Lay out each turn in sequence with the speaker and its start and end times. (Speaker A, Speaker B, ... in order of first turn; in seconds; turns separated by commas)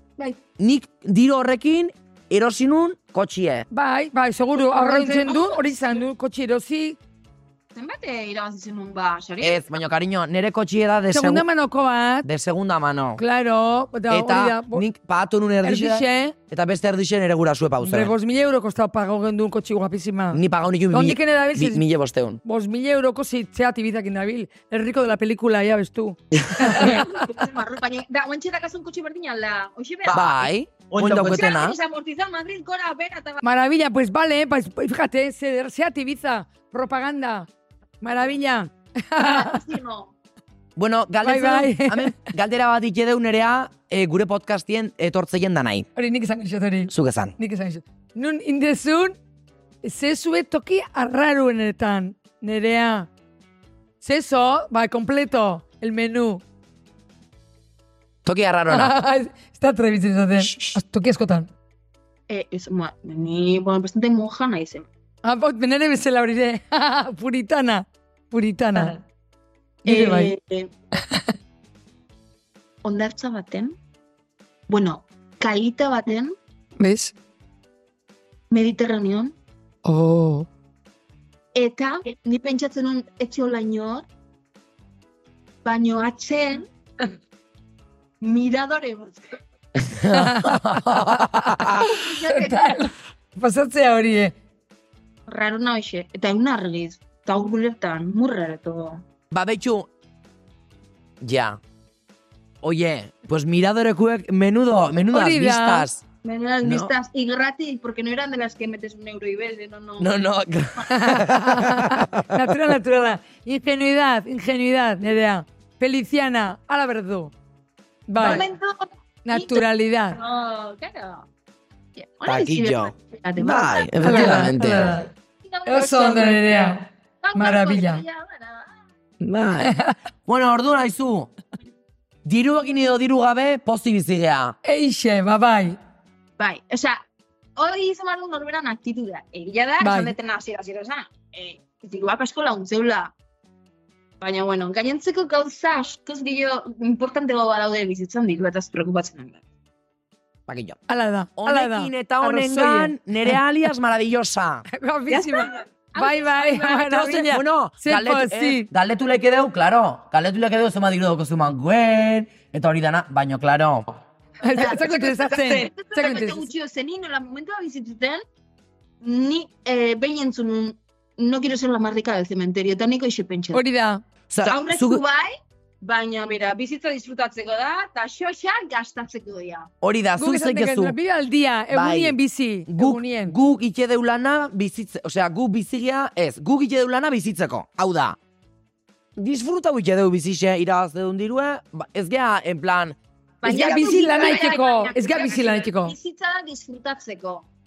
Speaker A: 0.6-3.6, Speaker B: 3.7-7.0, Speaker C: 4.6-5.7, Speaker C: 7.7-9.6, Speaker A: 9.4-11.4, Speaker B: 11.1-12.3, Speaker A: 12.2-13.2, Speaker B: 13.2-14.8, Speaker A: 14.1-18.1, Speaker B: 15.6-16.3, Speaker B: 17.8-21.8, Speaker A: 20.3-22.4, Speaker B: 22.4-27.2, Speaker A: 26.3-26.9, Speaker C: 26.6-33.4, Speaker A: 30.1-31.8, Speaker B: 33.4-37.5, Speaker B: 38.0-39.6, Speaker C: 39.2-40.1, Speaker A: 40.8-45.9, Speaker B: 41.2-42.3, Speaker B: 46.0-49.2, Speaker A: 46.9-47.3, Speaker B: 49.8-53.1, Speaker B: 54.0-56.4, Speaker A: 58.2-58.9, Speaker B: 58.7-61.5, Speaker C: 60.4-60.7, Speaker C: 62.3-64.8, Speaker B: 65.2-69.0, Speaker B: 69.8-70.3, Speaker C: 69.8-70.7, Speaker C: 72.8-73.7, Speaker C: 74.7-76.3, Speaker B: 76.8-77.1, Speaker C: 78.5-79.3, Speaker B: 79.8-80.5, Speaker C: 81.5-84.0, Speaker C: 85.6-86.7, Speaker C: 88.2-89.2, Speaker A: 89.8-91.9, Speaker B: 90.1-94.3, Speaker C: 91.8-92.9, Speaker C: 95.3-99.0, Speaker A: 99.3-99.9, Speaker A: 101.2-101.6, Speaker A: 102.6-106.0, Speaker B: 105.1-105.9, Speaker C: 106.2-110.2, Speaker A: 106.6-106.9, Speaker A: 110.0-112.7, Speaker B: 110.9-117.3, Speaker B: 118.1-118.4, Speaker C: 118.2-121.3, Speaker B: 119.2-120.2, Speaker C: 122.0-124.4, Speaker A: 122.2-125.0, Speaker B: 124.0-125.1, Speaker C: 125.4-128.7, Speaker B: 125.7-128.0, Speaker A: 129.2-131.3, Speaker B: 129.6-129.9, Speaker A: 132.2-134.6, Speaker B: 134.6-135.8, Speaker C: 136.4-137.0, Speaker C: 137.6-143.1, Speaker B: 139.8-140.1, Speaker C: 144.2-149.4, Speaker A: 150.5-150.8, Speaker B: 150.9-153.4, Speaker A: 151.4-154.7, Speaker B: 154.7-158.7, Speaker C: 155.1-157.2, Speaker A: 156.9-164.0, Speaker B: 164.4-166.5, Speaker C: 164.5-168.2, Speaker C: 169.0-173.6, Speaker B: 173.5-174.0, Speaker A: 174.3-175.0, Speaker C: 174.4-179.7, Speaker A: 179.8-181.0, Speaker B: 180.2-183.3, Speaker A: 181.7-182.2, Speaker A: 182.7-188.2, Speaker A: 189.2-193.0, Speaker C: 193.4-197.4, Speaker B: 193.4-195.9, Speaker A: 193.5-193.8